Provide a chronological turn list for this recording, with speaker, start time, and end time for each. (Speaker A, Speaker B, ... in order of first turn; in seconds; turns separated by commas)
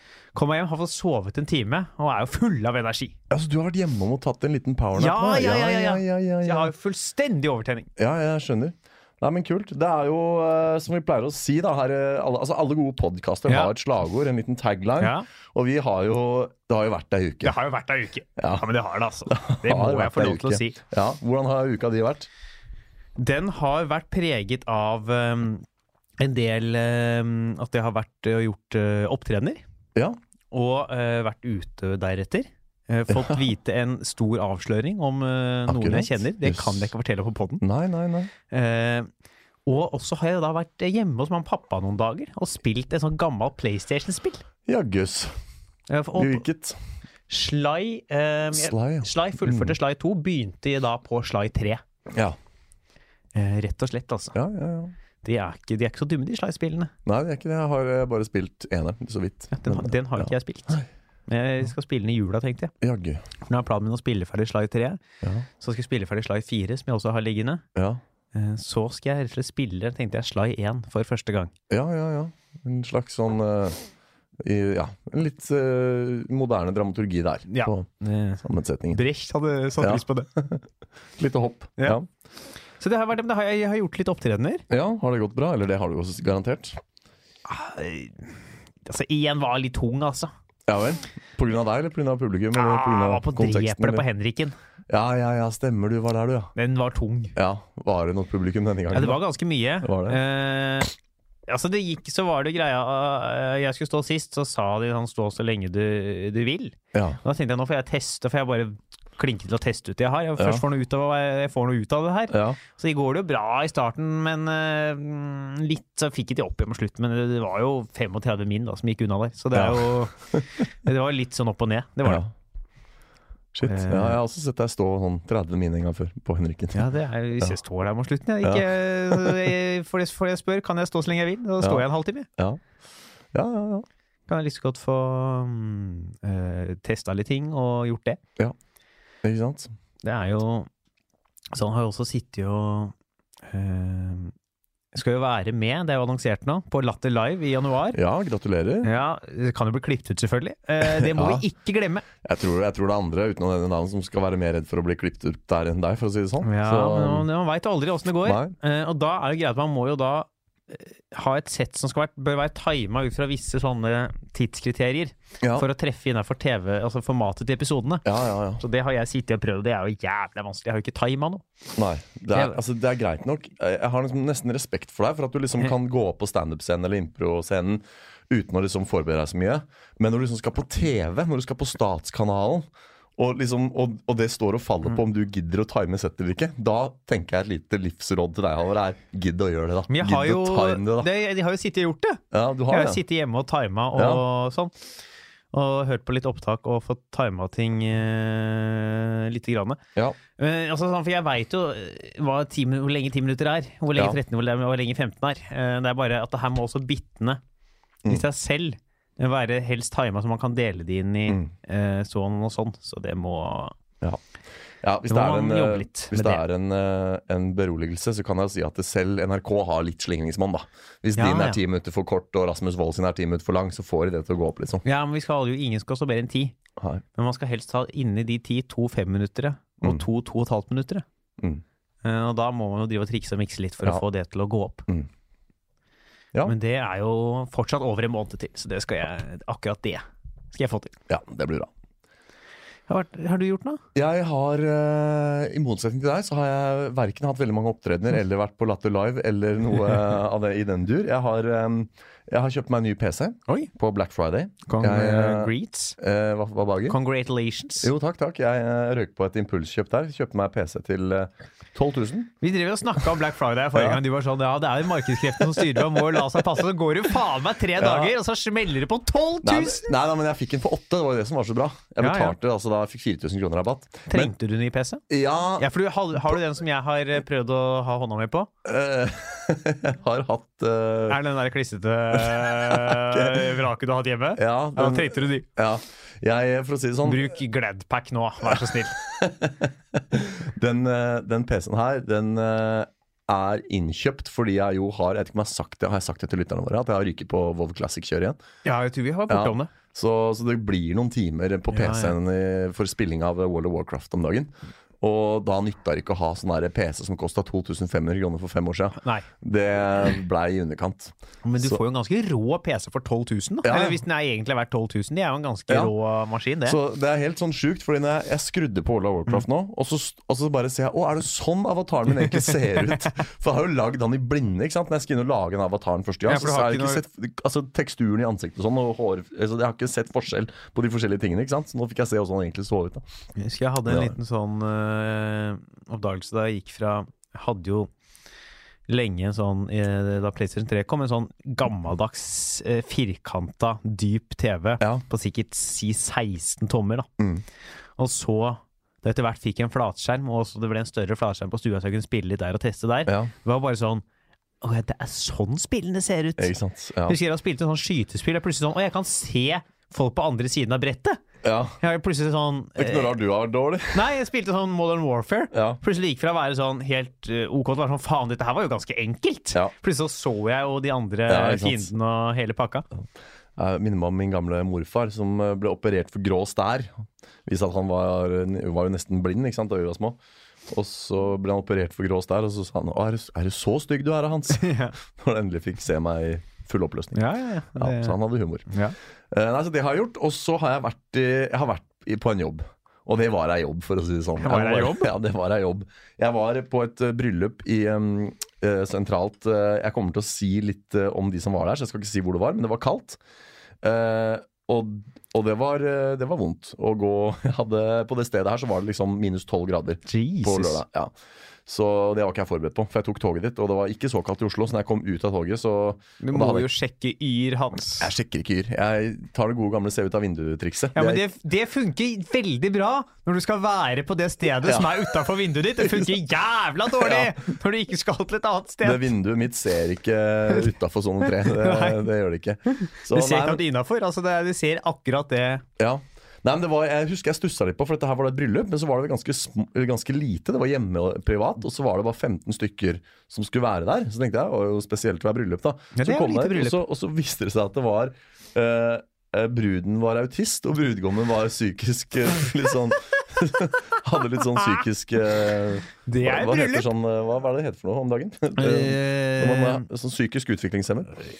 Speaker A: 0.3-3.1, Speaker B: 3.3-6.7, Speaker A: 4.9-7.9, Speaker B: 8.0-17.6, Speaker A: 13.5-13.7, Speaker A: 15.0-15.2, Speaker A: 17.4-20.8, Speaker B: 18.4-18.6, Speaker B: 19.3-22.3, Speaker A: 23.2-25.6, Speaker A: 26.2-29.6, Speaker A: 30.5-37.6, Speaker B: 33.1-33.4, Speaker B: 35.7-36.9, Speaker B: 37.6-38.3, Speaker A: 38.5-39.1, Speaker A: 39.6-44.4, Speaker B: 44.6-45.3, Speaker A: 45.9-46.4, Speaker B: 46.1-46.8, Speaker A: 47.3-51.8, Speaker B: 48.5-49.7, Speaker B: 52.1-52.4, Speaker A: 53.3-54.4, Speaker B: 54.3-54.9, Speaker A: 55.2-56.9, Speaker B: 57.0-60.9, Speaker A: 59.5-62.7, Speaker B: 62.8-63.2, Speaker A: 63.4-65.0, Speaker A: 65.6-67.6, Speaker B: 67.7-68.0, Speaker A: 68.3-71.5, Speaker B: 71.7-73.8, Speaker B: 74.4-77.9, Speaker A: 77.5-80.3, Speaker B: 78.4-79.0, Speaker B: 79.8-80.6, Speaker B: 81.2-82.1, Speaker A: 82.8-84.6, Speaker B: 84.7-86.8, Speaker A: 87.5-90.3, Speaker B: 90.7-94.0, Speaker A: 92.5-94.5, Speaker B: 94.9-96.5, Speaker A: 96.5-97.3, Speaker B: 97.3-99.2, Speaker A: 98.9-100.9, Speaker B: 99.8-100.2, Speaker A: 101.5-122.2, Speaker B: 106.9-107.2, Speaker B: 110.4-110.6, Speaker B: 112.3-112.6, Speaker B: 119.5-120.4, Speaker B: 122.0-122.3, Speaker B: 123.5-126.8, Speaker A: 123.6-124.2, Speaker A: 126.7-132.3, Speaker B: 128.4-129.5, Speaker B: 132.4-132.6, Speaker B: 133.3-133.8, Speaker A: 134.3-138.2, Speaker B: 139.2-139.7, Speaker A: 140.0-140.7, Speaker A: 141.5-142.9, Speaker A: 143.4-144.3, Speaker A: 144.9-148.0, Speaker B: 147.9-148.9, Speaker A: 148.8-152.1, Speaker B: 150.8-151.4, Speaker B: 152.2-157.3, Speaker A: 156.4-168.0, Speaker B: 158.2-158.5, Speaker B: 165.4-165.7, Speaker B: 168.0-168.6, Speaker A: 168.6-171.4, Speaker B: 171.8-191.1, Speaker A: 172.3-172.6, Speaker A: 189.9-194.7, Speaker B: 192.3-193.0, Speaker B: 193.9-194.2, Speaker A: 195.5-199.8, Speaker A: 200.4-207.4, Speaker A: 208.0-213.7, Speaker B: 214.8-224.8, Speaker A: 215.1-216.4, Speaker A: 221.2-221.6, Speaker A: 224.8-226.5, Speaker B: 226.8-227.0, Speaker A: 227.2-231.0, Speaker A: 232.0-234.8, Speaker A: 236.4-240.9, Speaker B: 241.1-241.7, Speaker A: 242.9-243.8, Speaker B: 243.9-257.0, Speaker A: 254.7-256.0, Speaker A: 256.9-257.9, Speaker B: 257.8-262.3, Speaker A: 262.4-269.9, Speaker B: 263.7-264.0, Speaker B: 267.8-268.1, Speaker B: 269.4-274.3, Speaker A: 272.0-272.3, Speaker A: 274.1-275.0, Speaker B: 275.1-275.7, Speaker A: 275.6-278.5, Speaker B: 278.6-281.2, Speaker A: 281.1-285.4, Speaker B: 282.1-283.5, Speaker B: 284.4-287.3, Speaker A: 287.0-288.9, Speaker B: 288.4-298.4, Speaker A: 298.6-299.7, Speaker B: 299.3-311.8, Speaker A: 301.7-302.1, Speaker A: 309.0-309.2, Speaker A: 311.4-316.8, Speaker B: 313.6-314.0, Speaker B: 316.6-333.0, Speaker A: 322.4-323.1, Speaker A: 326.2-327.0, Speaker A: 333.4-337.9, Speaker B: 333.9-334.1, Speaker A: 338.9-347.1, Speaker B: 347.2-347.4, Speaker A: 348.0-354.0, Speaker B: 353.1-353.3, Speaker A: 354.6-356.5, Speaker B: 356.4-357.2, Speaker A: 357.1-361.2, Speaker B: 361.4-361.8, Speaker A: 361.8-363.2, Speaker B: 362.8-364.1, Speaker A: 363.9-372.8, Speaker B: 365.5-365.8, Speaker B: 371.3-371.9, Speaker B: 373.6-380.2, Speaker B: 380.7-387.2, Speaker A: 384.5-384.9, Speaker A: 387.1-388.2, Speaker B: 387.7-388.7, Speaker A: 388.7-388.9, Speaker B: 389.3-403.2, Speaker A: 394.4-395.1, Speaker B: 403.8-411.1, Speaker A: 410.1-410.8, Speaker B: 411.6-416.7, Speaker A: 416.2-418.1, Speaker B: 417.9-421.2, Speaker A: 420.9-429.1, Speaker B: 424.6-425.1, Speaker B: 425.8-426.1, Speaker B: 426.9-427.4, Speaker B: 428.8-433.6, Speaker A: 431.4-432.1, Speaker A: 432.7-435.6, Speaker B: 435.8-461.2, Speaker A: 445.9-446.8, Speaker A: 456.1-456.9, Speaker A: 458.6-459.9